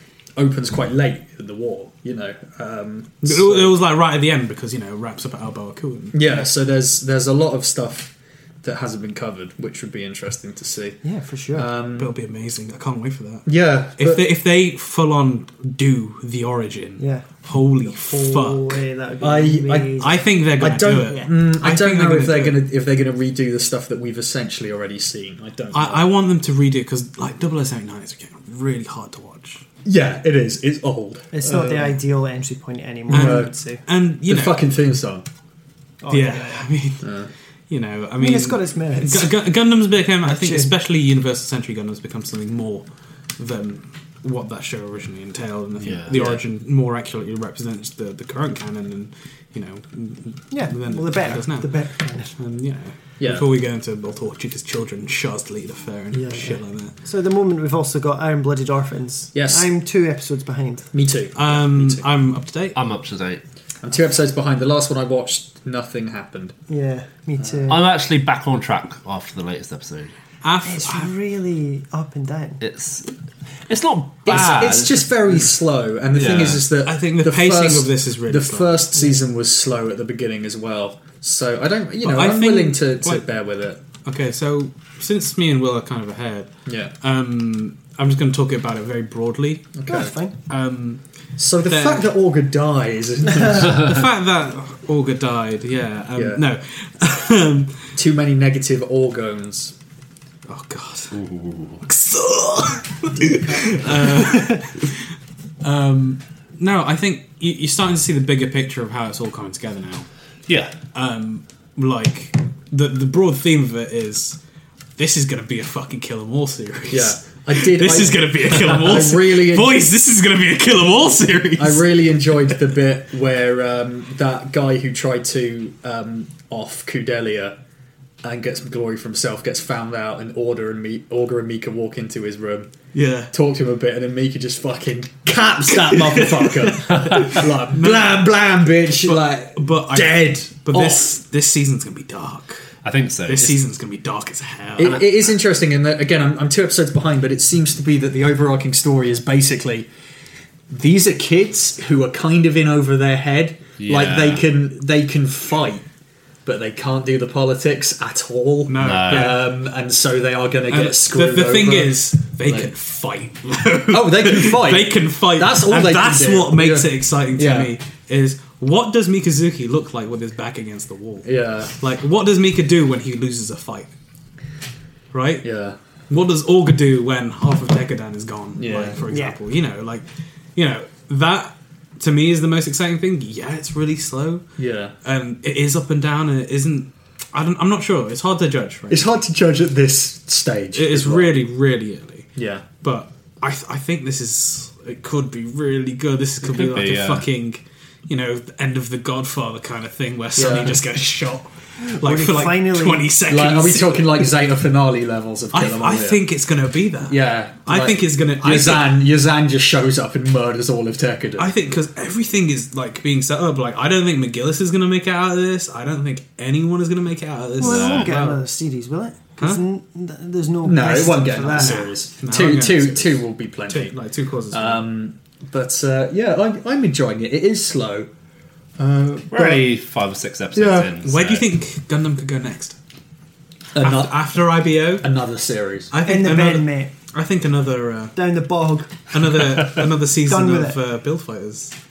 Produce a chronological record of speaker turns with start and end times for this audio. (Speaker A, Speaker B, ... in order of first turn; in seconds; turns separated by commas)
Speaker A: 0.4-3.8, Speaker B: 3.2-6.3, Speaker A: 6.1-11.0, Speaker C: 11.0-11.7, Speaker A: 11.5-12.1, Speaker B: 12.0-18.8, Speaker A: 13.5-14.2, Speaker C: 17.0-17.3, Speaker C: 17.8-20.2, Speaker A: 19.2-26.1, Speaker B: 20.0-22.6, Speaker C: 21.1-21.3, Speaker B: 25.7-29.6, Speaker A: 29.9-32.0, Speaker C: 31.3-33.8, Speaker A: 33.1-33.5, Speaker B: 33.1-34.6, Speaker A: 34.3-35.3, Speaker C: 36.0-36.7, Speaker B: 36.1-37.1, Speaker A: 37.0-37.3, Speaker B: 37.7-42.9, Speaker C: 38.2-39.4, Speaker C: 40.2-40.7, Speaker B: 43.4-51.8, Speaker D: 45.8-46.2, Speaker A: 46.1-46.4, Speaker C: 50.5-52.4, Speaker B: 52.3-56.9, Speaker A: 53.2-53.5, Speaker C: 56.1-60.9, Speaker A: 59.3-59.7, Speaker A: 60.9-62.1, Speaker B: 61.4-62.8, Speaker D: 62.8-63.4, Speaker A: 63.8-66.5, Speaker C: 66.7-67.9, Speaker D: 67.7-70.1, Speaker B: 70.4-71.1, Speaker C: 70.7-72.6, Speaker D: 72.6-73.1, Speaker D: 73.7-75.1, Speaker A: 74.3-83.8, Speaker D: 76.1-76.6, Speaker B: 76.8-78.9, Speaker B: 82.0-83.3, Speaker B: 84.0-89.8, Speaker A: 86.7-86.9, Speaker A: 89.8-90.1, Speaker C: 89.9-90.3, Speaker B: 90.5-91.0, Speaker A: 91.4-94.0, Speaker B: 91.7-92.1, Speaker B: 93.6-97.8, Speaker A: 96.2-96.4, Speaker A: 98.0-99.8, Speaker B: 100.5-101.2, Speaker D: 101.1-101.8, Speaker B: 101.8-105.0, Speaker B: 105.6-110.1, Speaker D: 110.5-110.7, Speaker B: 110.9-114.4, Speaker B: 115.0-121.9, Speaker A: 116.9-119.8, Speaker A: 121.6-127.6, Speaker A: 128.2-132.7, Speaker B: 132.9-133.3, Speaker A: 133.3-141.1, Speaker B: 135.9-138.3, Speaker D: 136.9-137.2, Speaker B: 138.9-142.6, Speaker D: 142.8-143.6, Speaker B: 143.3-145.1, Speaker A: 144.8-149.9, Speaker A: 150.7-155.8, Speaker D: 153.8-154.4, Speaker A: 156.4-162.7, Speaker B: 158.7-159.5, Speaker D: 158.8-159.4, Speaker B: 160.7-173.9, Speaker A: 163.9-167.7, Speaker A: 171.2-171.7, Speaker B: 175.1-175.5, Speaker A: 175.4-175.8, Speaker B: 176.1-180.1, Speaker A: 178.6-179.0, Speaker C: 179.1-179.4, Speaker B: 180.6-184.4, Speaker A: 184.6-184.9, Speaker B: 185.0-189.1, Speaker A: 188.9-191.4, Speaker B: 190.7-192.3, Speaker A: 192.4-192.7, Speaker B: 192.8-204.2, Speaker D: 196.4-197.3, Speaker A: 200.4-200.8, Speaker C: 201.8-203.1, Speaker A: 203.3-206.2, Speaker B: 205.5-209.0, Speaker A: 207.1-211.5, Speaker B: 211.4-218.4, Speaker C: 217.6-221.9, Speaker D: 217.6-218.2, Speaker A: 220.6-224.0, Speaker B: 221.5-224.8, Speaker A: 224.5-228.1, Speaker A: 228.8-229.7, Speaker D: 229.3-231.5, Speaker A: 230.6-230.9, Speaker B: 231.0-232.8, Speaker A: 233.7-234.2, Speaker B: 233.8-235.1, Speaker A: 235.0-235.9, Speaker B: 235.9-238.1, Speaker C: 236.0-236.9, Speaker C: 238.2-239.0, Speaker B: 239.1-241.7, Speaker C: 240.2-240.8